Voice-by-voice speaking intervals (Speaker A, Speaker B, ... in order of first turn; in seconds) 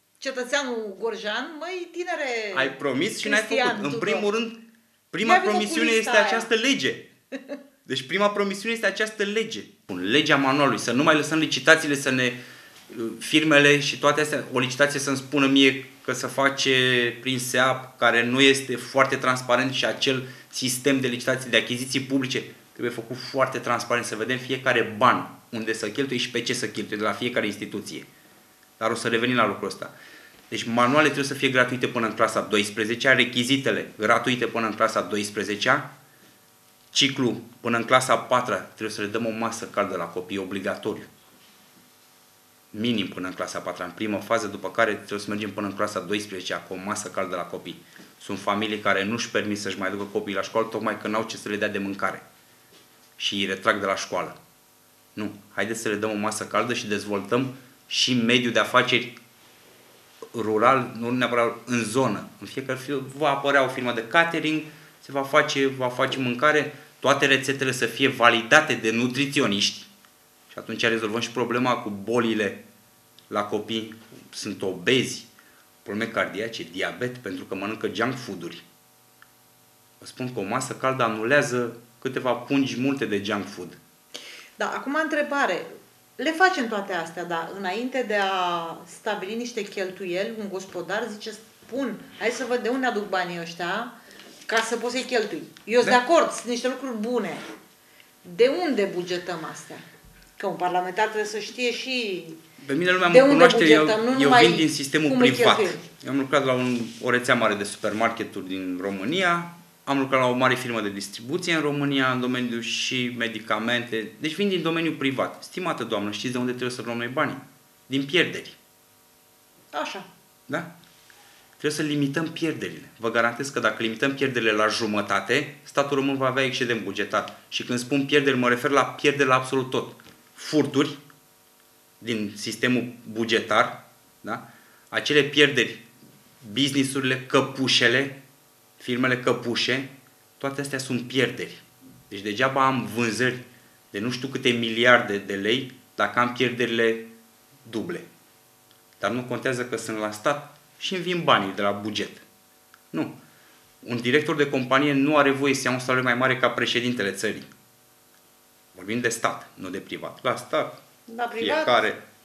Speaker A: 0.2-4.3, 5.2-6.5, 84.6-93.9, 94.5-97.4, 98.2-99.8, 100.4-102.4, 103.0-105.8, 119.7-120.0, 161.1-161.8
Speaker B: 2.5-4.6, 5.1-7.1, 7.8-12.4, 12.9-28.1, 28.8-29.9, 30.5-35.9, 36.9-41.1, 42.7-52.2, 53.2-54.4, 55.1-59.1, 60.3-69.9, 70.5-72.6, 73.3-75.3, 75.8-78.6, 80.0-83.8, 102.6-118.6, 121.6-131.0, 132.0-135.8, 136.4-138.2, 138.8-147.1, 147.6-148.1, 149.0-152.2, 153.8-157.5, 158.7-160.7, 161.4-162.0